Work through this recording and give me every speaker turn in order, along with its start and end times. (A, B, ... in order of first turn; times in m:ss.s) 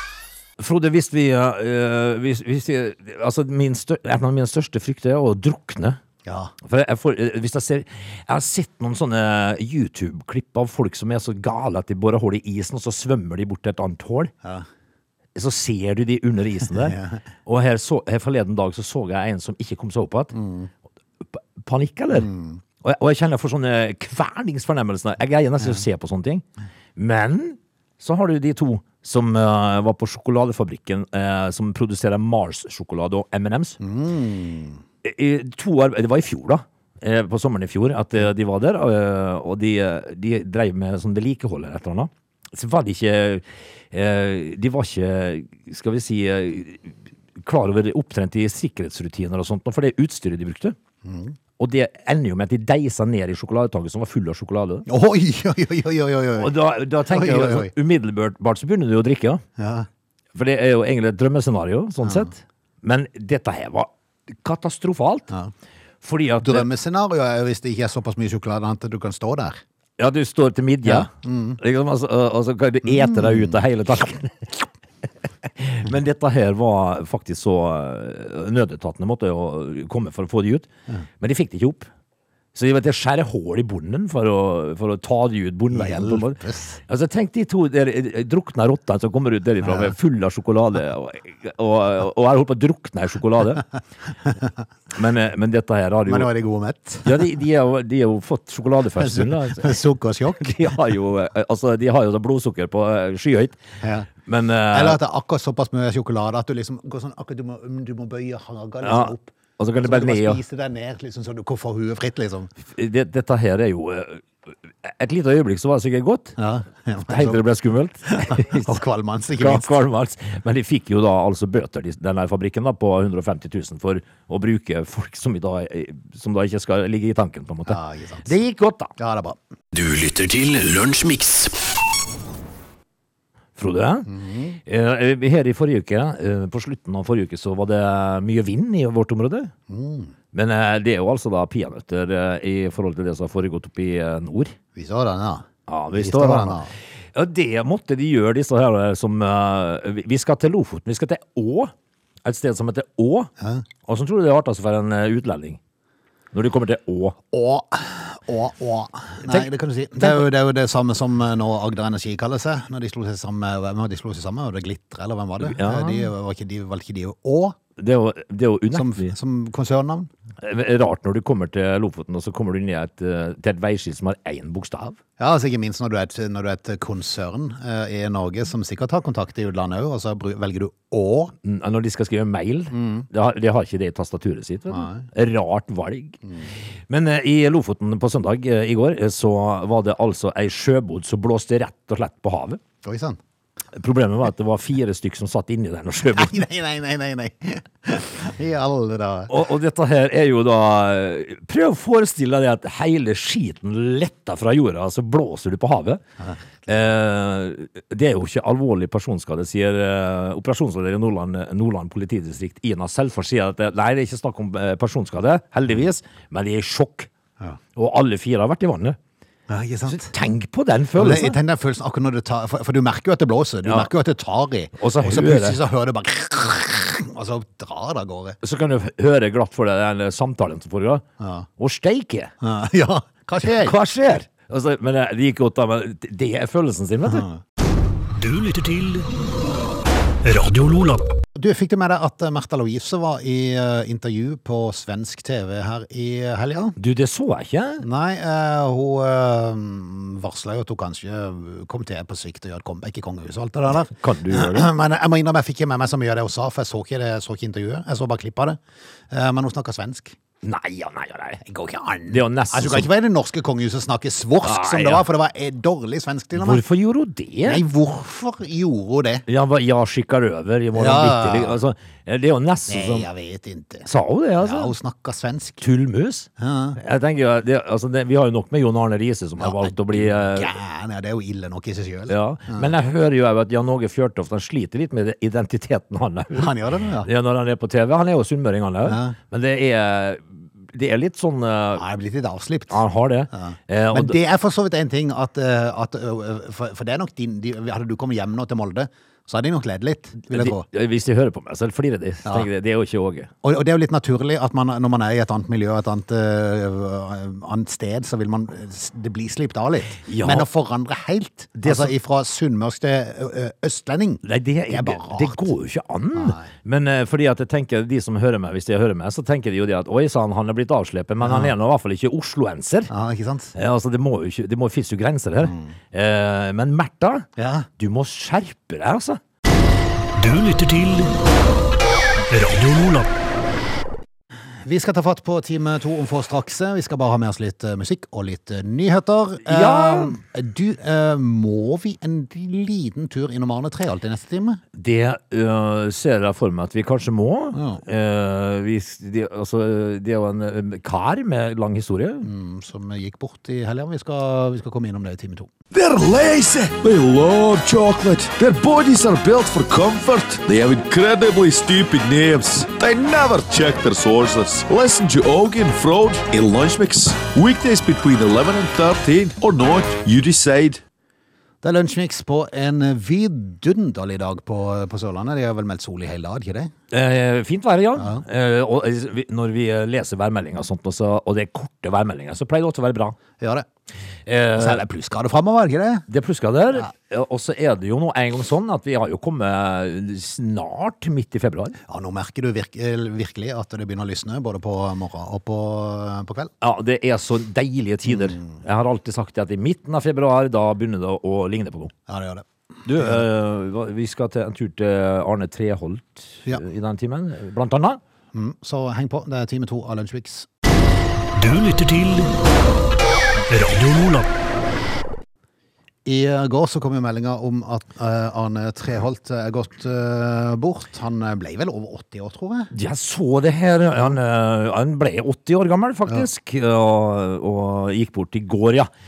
0:00.6-0:06.0 A
0:06.2-0:06.5 B
0:06.6-0:14.3 A
0:15.4-0:20.3 A
0:16.8-0:17.2 B
0:20.3-0:20.7 B
0:21.2-0:22.3 A
0:22.2-0:22.6 B
0:22.8-0:26.4 A
0:27.0-0:33.8 A
0:33.8-0:34.8 B
0:35.0-0:50.8 A
0:51.0-0:51.4 B
0:51.6-0:54.9 A
0:54.9-0:57.7 B
0:56.4-0:59.4 A
0:59.6-0:59.9 B
1:00.3-1:05.3 A
1:02.0-1:02.3 B
1:06.0-1:06.7 A
1:06.4-1:09.6 B
1:10.0-1:14.7 A
1:10.8-1:11.6 B
1:12.9-1:13.6 B
1:15.4-1:20.7 A
1:21.2-1:21.9 A
1:22.6-1:33.7 A
1:25.7-1:26.8 B
1:34.9-1:36.3 A
1:36.1-1:37.3 B
1:37.0-1:39.8 A
1:39.0-1:40.8 B
1:40.4-1:43.6 A
1:43.8-1:44.1 B
1:44.2-1:45.0 A
1:44.7-1:52.5 B
1:48.8-1:50.4 A
1:52.7-1:54.2 A
1:54.8-1:56.4 A
1:56.4-1:57.4 B
1:57.1-1:58.8 A
1:58.1-1:59.7 B
1:59.4-2:09.0 A
2:07.7-2:08.3 B
2:09.0-2:09.4 B
2:09.7-2:11.6 C
2:13.6-2:14.1 A
2:14.1-2:14.6 B
2:14.6-2:19.5 A
2:19.7-2:20.1 B
2:20.3-2:24.6 A
2:24.8-2:26.7 B
2:25.7-2:26.6 A
2:27.1-2:31.7 A
2:32.2-2:33.3 A
2:33.4-2:33.6 B
2:33.8-2:35.6 A
2:36.3-2:37.2 A
2:37.3-2:47.6 B
2:39.2-2:40.3 A
2:45.4-2:46.1 A
2:47.8-2:49.1 A
2:48.7-2:50.1 B
2:50.4-2:55.0 A
2:55.2-3:01.3 B
3:01.4-3:06.2 A
3:02.7-3:03.1 B
3:04.7-3:05.1 B
3:06.9-3:12.6 A
3:12.8-3:13.2 B
3:13.7-3:16.4 A
3:16.1-3:19.4 B
3:19.3-3:26.0 A
3:26.7-3:37.1 A
3:37.8-3:39.0 A
3:39.5-3:40.1 B
3:39.9-3:41.4 A
3:41.0-3:48.4 B
3:43.6-3:43.9 A
3:44.8-3:45.6 A
3:48.4-3:51.0 A
3:51.2-3:51.5 B
3:51.6-3:52.3 A
3:52.4-3:53.8 B
3:53.4-3:57.3 A
3:57.1-3:57.4 B
3:58.2-3:59.1 C
4:00.2-4:01.1 C
4:01.4-4:06.8 B
4:06.8-4:07.8 A
4:07.8-4:18.6 B
4:13.9-4:14.7 A
4:19.1-4:20.2 B
4:20.4-4:21.4 A
4:21.4-4:26.6 B
4:22.1-4:22.9 A
4:24.4-4:25.0 A
4:26.4-4:27.6 A
4:27.4-4:29.2 B
4:29.3-4:33.1 A
4:30.8-4:31.6 B
4:32.7-4:33.9 B
4:33.9-4:34.7 A
4:34.4-4:35.6 B
4:35.6-4:40.5 A
4:36.4-4:36.8 B
4:39.4-4:42.7 B
4:42.1-4:51.8 A
4:46.3-4:47.1 B
4:48.8-4:49.2 B
4:51.8-4:52.8 B
4:52.7-4:54.2 A
4:53.3-5:00.7 B
5:00.3-5:03.3 A
5:03.4-5:15.5 B
5:10.0-5:10.5 A
5:11.6-5:11.9 A
5:14.2-5:22.9 A
5:16.2-5:16.5 B
5:21.2-5:21.5 B
5:22.9-5:23.5 B
5:23.6-5:27.3 A
5:25.4-5:25.7 B
5:27.4-5:27.7 B
5:27.8-5:29.2 A
5:30.2-5:31.2 C
5:32.3-5:33.1 C
5:34.6-5:44.6 B
5:39.4-5:40.2 A
5:44.7-5:52.3 A
5:47.5-5:47.8 B
5:52.2-5:55.5 B
5:55.7-6:10.8 D
6:11.6-6:16.7 B
6:16.9-6:23.2 A
6:18.0-6:18.2 B
6:23.4-6:23.7 B
6:24.3-6:24.8 A
6:24.6-6:26.1 B
6:26.1-6:31.8 A
6:31.9-6:36.5 B
6:36.6-6:41.9 A
6:38.1-6:38.6 B
6:42.1-6:43.3 B
6:42.9-6:48.0 A
6:48.3-6:50.5 B
6:51.4-6:52.3 C
6:53.5-6:54.3 C
6:56.1-7:02.7 B
7:02.7-7:08.9 A